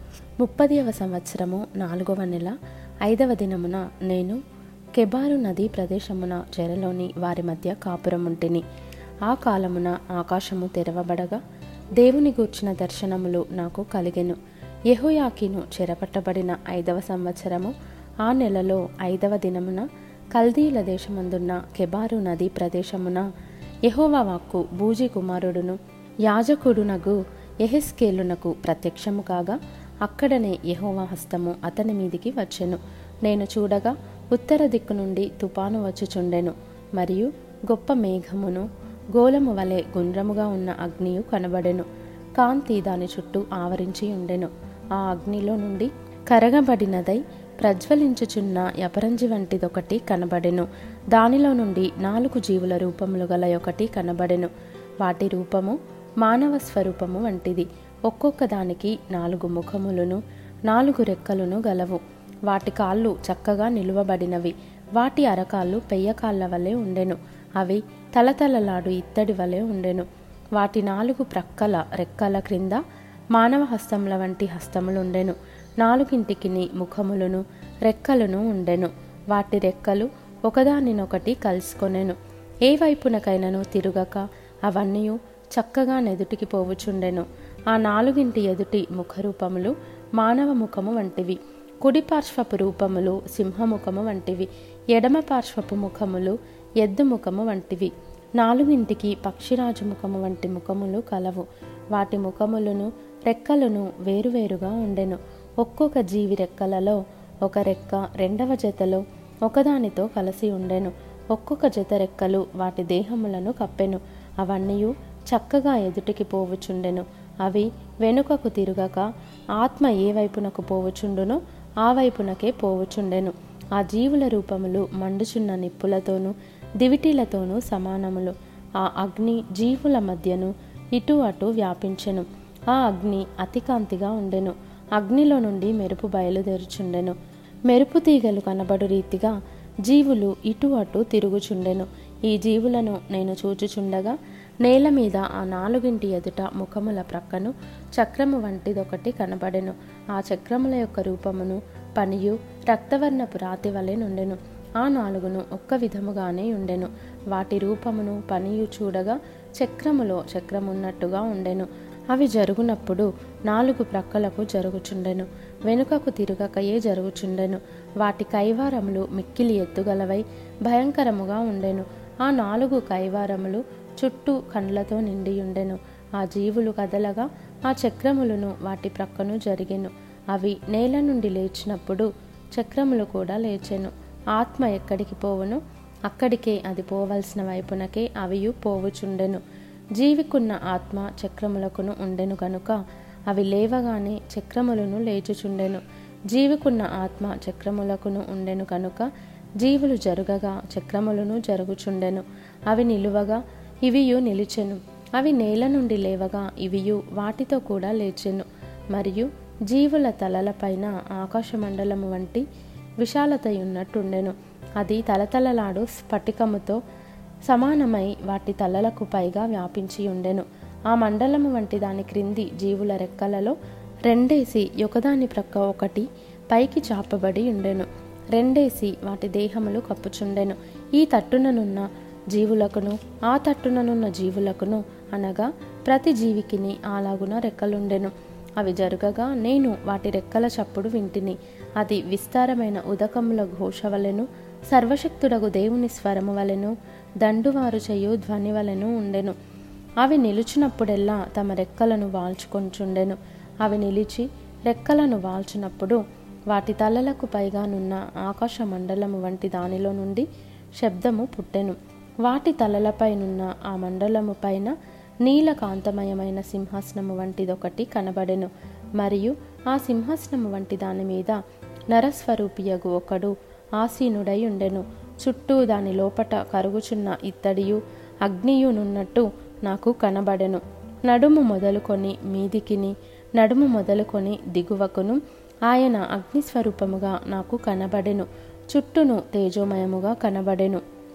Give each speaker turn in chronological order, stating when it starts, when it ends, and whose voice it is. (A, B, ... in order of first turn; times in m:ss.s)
0:00.4-0:04.4 A
0:05.0-0:08.6 A
0:09.2-0:11.4 A
0:12.0-0:14.4 A
0:14.9-0:23.2 A
0:23.9-0:41.8 A
0:42.4-1:12.8 A
1:13.3-2:17.2 A
2:17.7-3:09.4 A
3:10.0-3:12.8 A
3:13.3-3:19.1 A
3:19.6-3:32.4 A
3:33.0-3:36.8 A
3:37.5-4:09.3 A
4:10.0-4:20.2 A
4:20.8-4:31.4 A
4:31.9-4:50.8 A